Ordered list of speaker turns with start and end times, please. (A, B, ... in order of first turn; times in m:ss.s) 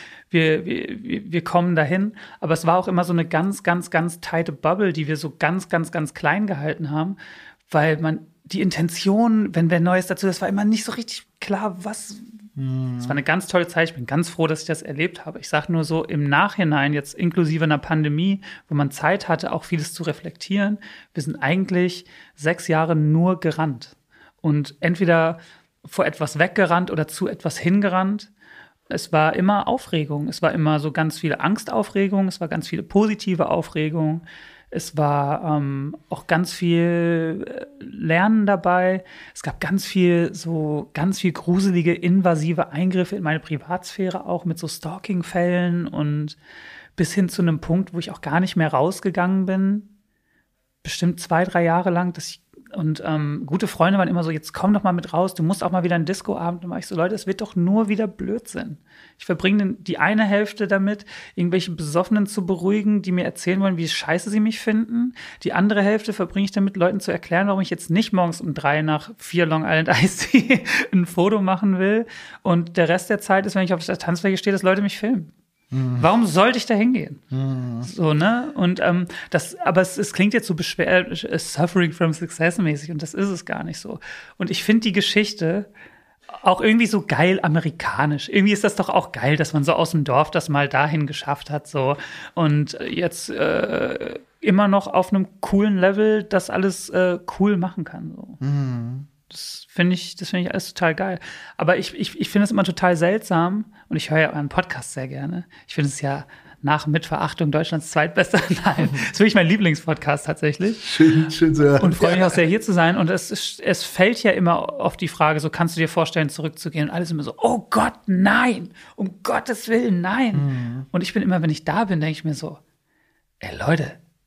0:00.3-0:07.2 A
0:07.7-0:12.3 A
0:12.6-0:13.2 B
0:13.0-0:28.3 A
0:28.9-0:46.4 A
0:47.0-0:49.9 A
0:50.8-1:15.3 A
1:15.7-1:16.0 B
1:16.0-1:17.2 A
1:17.3-1:17.9 B
1:17.8-1:25.7 A
1:26.3-1:38.4 A
1:38.4-1:39.1 B
1:39.3-1:50.9 A
1:50.8-1:52.3 B
1:51.8-2:02.6 A
2:00.3-2:00.9 B
2:03.4-2:04.0 A